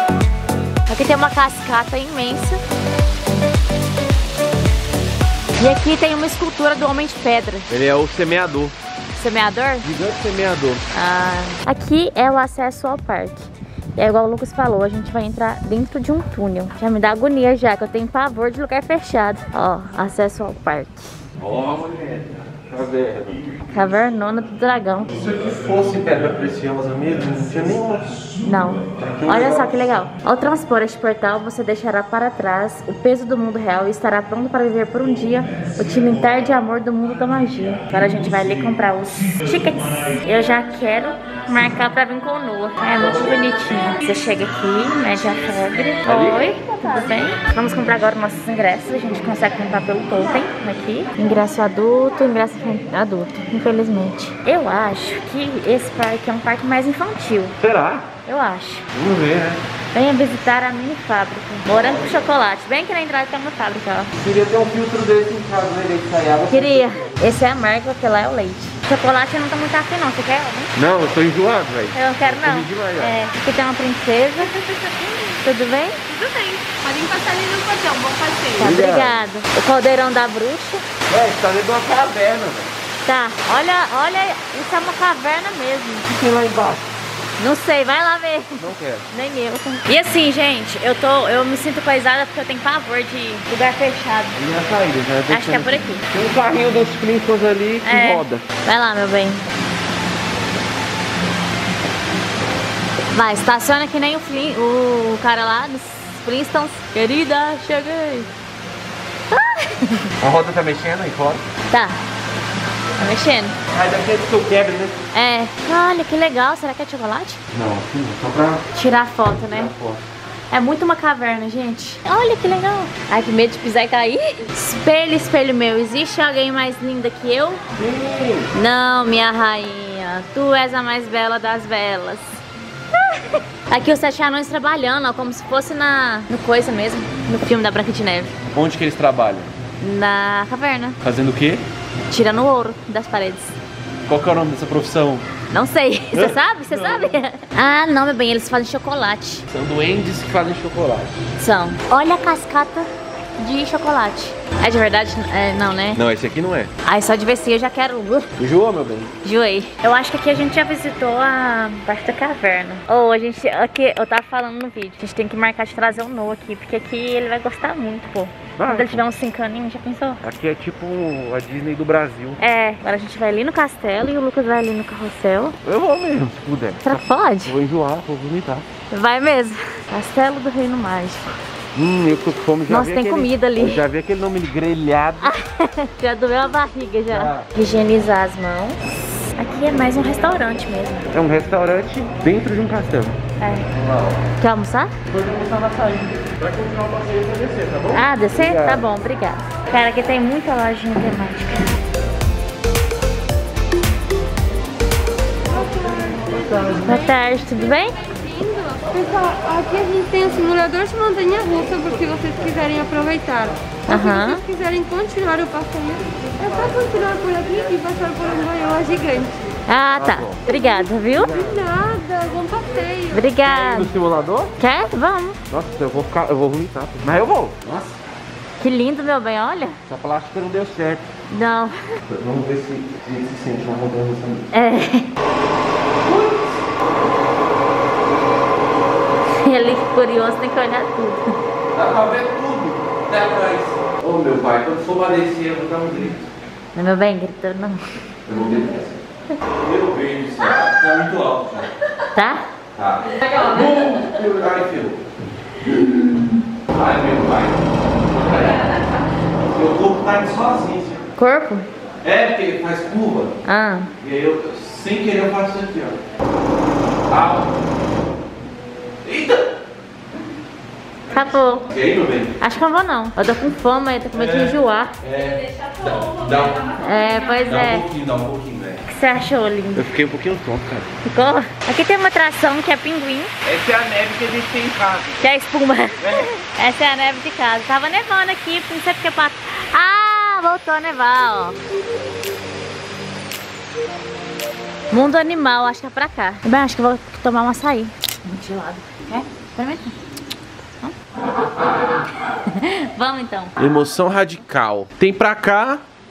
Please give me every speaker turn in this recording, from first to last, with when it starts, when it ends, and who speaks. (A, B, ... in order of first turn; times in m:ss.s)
0:00.9-0:02.6 A
0:05.6-0:07.7 A
0:07.7-0:08.8 B
0:09.1-0:09.9 A
0:09.8-0:10.8 B
0:10.9-0:21.1 A
0:21.4-0:23.5 B
0:23.7-0:25.1 A
0:25.2-0:28.4 B
0:28.4-0:57.6 A
0:28.9-0:29.8 B
0:46.0-0:47.4 B
0:57.6-0:58.1 B
0:58.3-0:58.9 A
0:58.9-0:59.6 B
0:59.9-1:04.1 A
1:01.7-1:02.2 B
1:04.2-1:07.2 B
1:06.5-1:10.7 A
1:10.8-1:13.2 B
1:11.9-1:14.6 A
1:14.7-1:15.2 C
1:15.4-1:16.0 A
1:16.1-1:18.6 C
1:18.6-1:19.3 B
1:18.6-1:20.8 A
1:21.1-1:22.7 B
1:23.0-1:26.1 A
1:26.1-1:26.9 B
1:27.4-1:34.4 A
1:28.6-1:29.1 B
1:34.4-1:38.4 B
1:35.3-1:36.0 A
1:37.8-1:39.4 A
1:43.1-1:48.3 A
1:49.3-1:50.1 A
1:50.2-1:51.4 B
1:51.7-1:52.0 A
1:53.0-1:53.6 A
1:53.7-1:55.0 B
1:55.1-1:57.4 A
1:57.5-1:58.6 B
1:58.7-1:59.7 A
1:59.5-2:00.0 B
2:00.5-2:07.6 A
2:07.7-2:08.5 B
2:08.5-2:12.4 A
2:12.9-2:18.4 A
2:18.5-2:19.5 B
2:19.8-2:21.0 A
2:21.0-2:21.6 B
2:22.1-2:23.6 A
2:24.1-2:25.3 B
2:25.5-2:29.5 A
2:26.1-2:27.2 B
2:29.5-2:31.2 B
2:31.4-2:36.0 A
2:36.0-2:36.7 B
2:36.8-2:38.3 A
2:38.4-2:39.1 B
2:39.2-2:50.2 A
2:48.6-2:49.0 B
2:50.2-2:52.4 B
2:52.4-2:55.6 A
2:55.6-2:58.7 B
2:56.8-2:57.6 A
2:58.9-3:01.4 A
3:01.7-3:05.4 B
3:02.7-3:03.8 A
3:05.2-3:08.8 A
3:07.1-3:07.5 B
3:09.4-3:11.1 A
3:11.1-3:13.2 B
3:13.4-3:13.7 A
3:13.7-3:14.2 B
3:14.4-3:15.0 A
3:15.1-3:18.9 B
3:17.9-3:21.7 A
3:25.7-3:26.4 C
3:26.1-3:26.9 B
3:26.8-3:28.0 A
3:28.2-3:39.6 C
3:33.9-3:34.4 A
3:39.7-3:41.4 A
3:40.0-3:40.4 B
3:40.5-3:43.2 C
3:41.3-3:41.7 B
3:43.1-3:43.9 A
3:43.4-3:44.5 B
3:44.6-3:45.4 A
3:45.5-3:48.0 B
3:48.6-3:49.8 A
3:49.9-3:51.1 B
3:51.3-3:52.0 A
3:52.1-3:54.5 B
3:54.5-3:55.1 A
3:56.0-3:56.6 B
3:59.3-4:01.2 A
4:01.7-4:06.3 B
4:06.8-4:07.8 A
4:08.3-4:09.0 B
4:09.6-4:11.7 B
4:12.1-4:12.4 A
4:12.8-4:15.0 B
4:15.6-4:18.7 B
4:19.5-4:21.1 B
4:21.2-4:21.7 A
4:22.0-4:23.4 B
4:23.4-4:23.9 A
4:24.0-4:26.0 B
4:27.1-4:27.6 B
4:29.0-4:29.5 B
4:31.1-4:31.7 A
4:31.7-4:32.4 B
4:32.4-4:35.0 A
4:34.1-4:36.8 B
4:36.8-4:37.9 A
4:37.4-4:38.8 B
4:38.9-4:39.9 A
4:39.8-4:40.9 B
4:41.0-4:43.3 A
4:43.4-4:45.2 B
4:45.2-4:51.6 A
4:46.0-4:46.3 B
4:54.9-5:00.0 A
5:02.2-5:03.6 A
5:03.6-5:05.8 B